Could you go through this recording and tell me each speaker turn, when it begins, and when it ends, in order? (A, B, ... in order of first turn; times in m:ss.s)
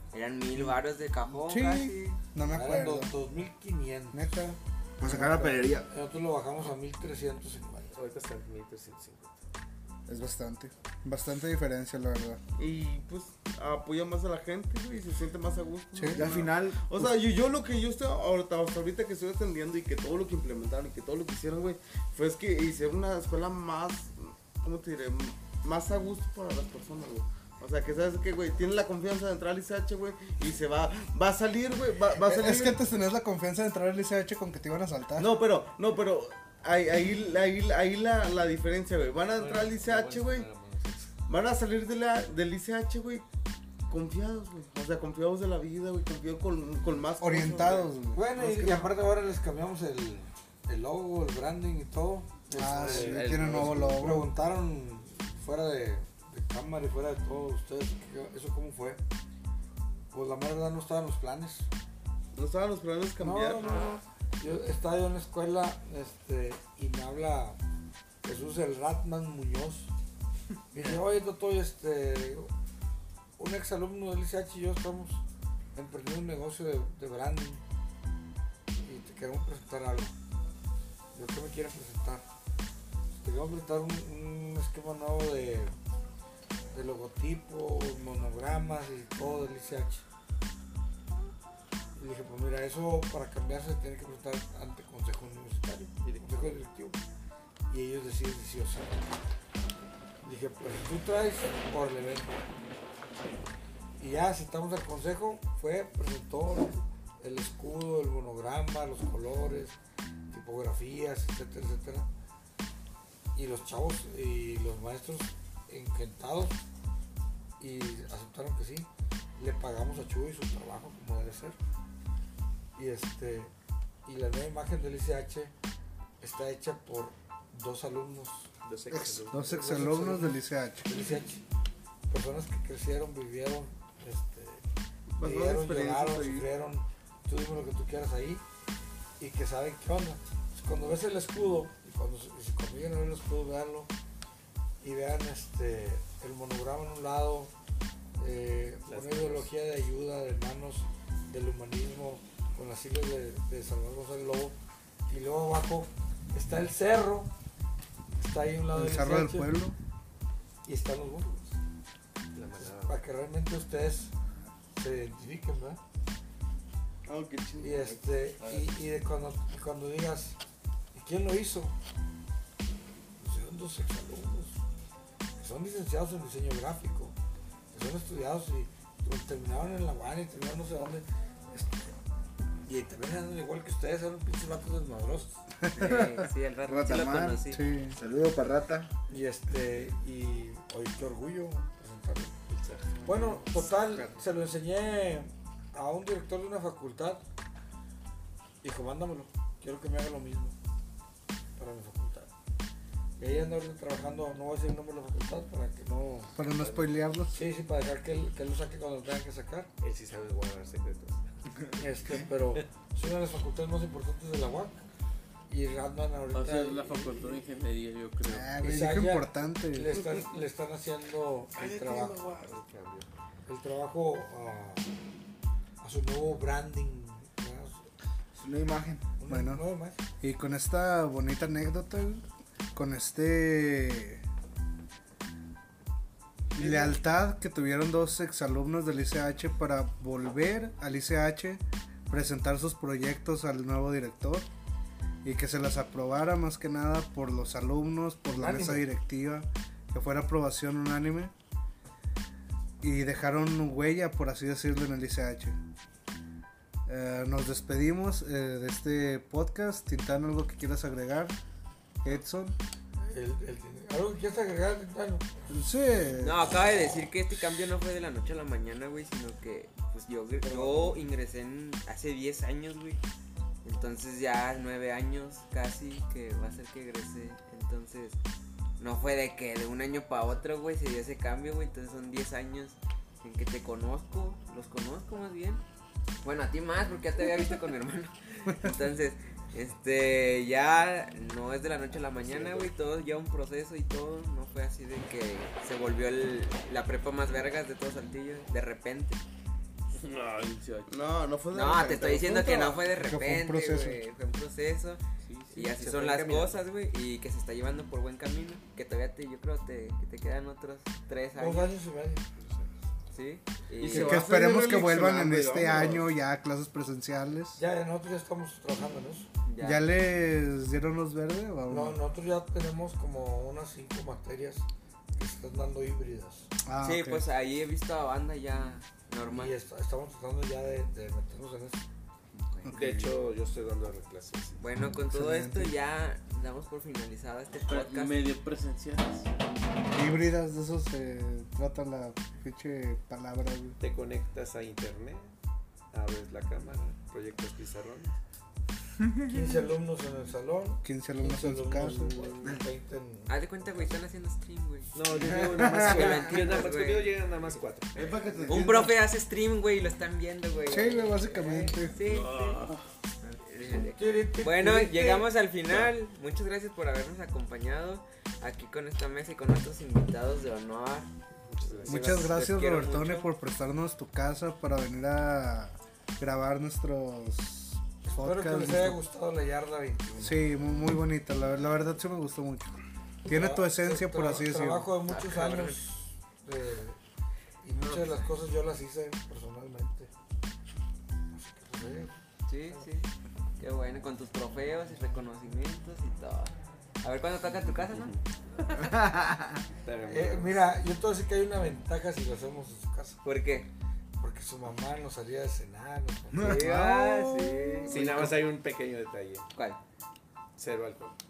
0:00.1-0:02.2 A
0:01.3-0:03.1 B
0:02.5-0:04.4 C
0:04.1-0:05.6 B
0:05.0-0:05.9 D
0:05.1-0:08.0 C
0:07.9-0:09.4 E
0:10.1-0:12.4 B
0:12.6-0:32.9 F
0:15.9-0:16.4 B
0:16.1-0:17.2 D
0:32.1-0:35.3 B
0:35.2-0:40.5 F
0:39.4-0:41.1 E
0:41.3-0:43.2 F
0:43.9-0:48.0 F
0:47.2-0:48.2 B
0:48.1-0:59.0 C
0:52.5-0:54.4 B
0:52.8-0:54.0 G
1:00.1-1:01.7 C
1:02.4-1:03.8 F
1:03.2-1:07.6 C
1:08.2-1:09.9 C
1:10.7-1:12.5 C
1:13.4-1:15.2 C
1:15.7-1:17.6 C
1:18.8-1:20.1 C
1:21.1-1:22.2 C
1:23.2-1:25.7 C
1:26.7-1:30.0 C
1:32.0-1:37.0 C
1:36.0-1:36.6 E
1:37.7-1:39.1 C
1:40.2-1:42.5 C
1:44.0-1:49.8 C
1:50.3-1:52.1 C
1:53.3-1:56.6 C
1:57.6-2:01.6 C
2:02.8-2:03.5 C
2:04.0-2:05.5 C
2:06.2-2:08.5 C
2:08.6-2:09.4 E
2:08.9-2:10.9 B
2:09.3-2:11.4 C
2:12.1-2:14.6 C
2:15.1-2:16.5 F
2:15.2-2:18.4 C
2:19.2-2:23.9 C
2:24.8-2:27.5 C
2:28.2-2:34.6 C
2:28.9-2:29.5 E
2:35.1-2:37.3 C
2:38.2-2:39.5 C
2:38.7-2:39.8 B
2:40.6-2:41.5 C
2:42.3-2:43.0 E
2:42.6-2:44.1 C
2:44.7-2:45.8 C
2:47.0-2:48.8 F
2:47.6-2:50.4 C
2:50.9-2:51.8 C
2:53.2-2:54.6 C
2:55.4-2:57.1 C
2:57.7-3:01.9 C
3:02.6-3:05.5 C
3:05.6-3:06.3 B
3:05.7-3:07.6 A
3:06.6-3:08.9 D
3:07.4-3:08.0 B
3:09.1-3:12.4 C
3:12.5-3:14.3 E
3:13.0-3:17.2 C
3:18.6-3:20.6 C
3:21.6-3:22.3 C
3:23.2-3:26.4 C
3:26.4-3:27.4 B
3:26.6-3:26.9 E
3:27.3-3:29.7 C
3:29.8-3:31.2 E
3:31.8-3:34.8 C
3:35.5-3:37.4 C
3:36.3-3:38.8 G
3:38.2-3:40.0 B
3:38.6-3:42.2 C
3:41.6-3:42.6 G
3:42.2-3:43.1 E
3:43.5-3:45.0 C
3:45.8-3:47.9 C
3:48.3-3:49.1 D
3:49.2-3:50.0 C
3:49.3-3:49.6 B
3:50.2-3:54.2 B
3:56.6-4:04.5 B
3:56.6-3:57.0 C
4:05.2-4:11.3 B
4:08.3-4:08.9 C
4:12.8-4:15.6 B
4:16.9-4:21.4 B
4:22.0-4:22.6 B
4:23.1-4:25.3 C
4:25.5-4:26.4 B
4:26.2-4:33.0 A
4:33.6-4:38.2 A
4:38.8-4:45.6 A
4:46.2-4:59.2 A
4:48.5-4:48.8 B
4:59.9-5:00.9 G
5:00.9-5:02.8 F
5:01.5-5:11.7 A
5:02.9-5:04.0 B
5:05.2-5:05.5 G
5:05.5-5:06.6 E
5:11.4-5:12.2 C
5:12.4-5:12.7 E
5:13.1-5:14.2 A
5:13.8-5:16.1 F
5:13.9-5:17.6 B
5:17.6-5:19.3 C
5:19.4-5:19.8 A
5:19.6-5:22.0 B
5:21.7-5:26.5 C
5:26.6-5:27.3 B
5:26.8-5:29.5 A
5:29.3-5:31.8 C
5:32.4-5:32.8 A
5:32.6-5:33.1 B
5:32.7-5:34.6 E
5:34.6-5:38.2 A
5:34.8-5:35.7 B
5:37.7-5:39.3 G
5:39.9-5:43.8 B
5:43.8-5:45.3 E
5:45.9-5:48.1 E
5:49.2-5:54.0 C
5:50.8-5:52.1 B
5:53.3-5:54.9 A
5:54.9-5:58.1 E
5:55.1-5:56.3 D
5:55.5-5:57.2 A
5:57.9-5:59.0 F
5:58.5-6:02.6 A
6:00.6-6:02.0 B
6:02.0-6:02.8 G
6:03.2-6:11.1 A
6:03.7-6:05.3 C
6:11.4-6:12.3 E
6:11.6-6:13.3 A
6:11.8-6:19.0 B
6:18.0-6:20.5 C
6:20.2-6:24.9 B
6:23.2-6:27.0 C
6:25.1-6:25.8 A
6:27.6-6:30.1 C
6:31.3-6:32.2 C
6:32.5-6:38.1 A
6:37.9-6:38.2 E
6:38.8-6:39.6 D
6:39.8-6:40.6 E
6:40.0-6:43.2 C
6:43.2-6:43.7 A
6:44.2-6:46.6 C
6:46.3-6:48.3 D
6:46.4-6:47.9 A
6:47.9-6:49.4 E
6:50.6-6:51.1 E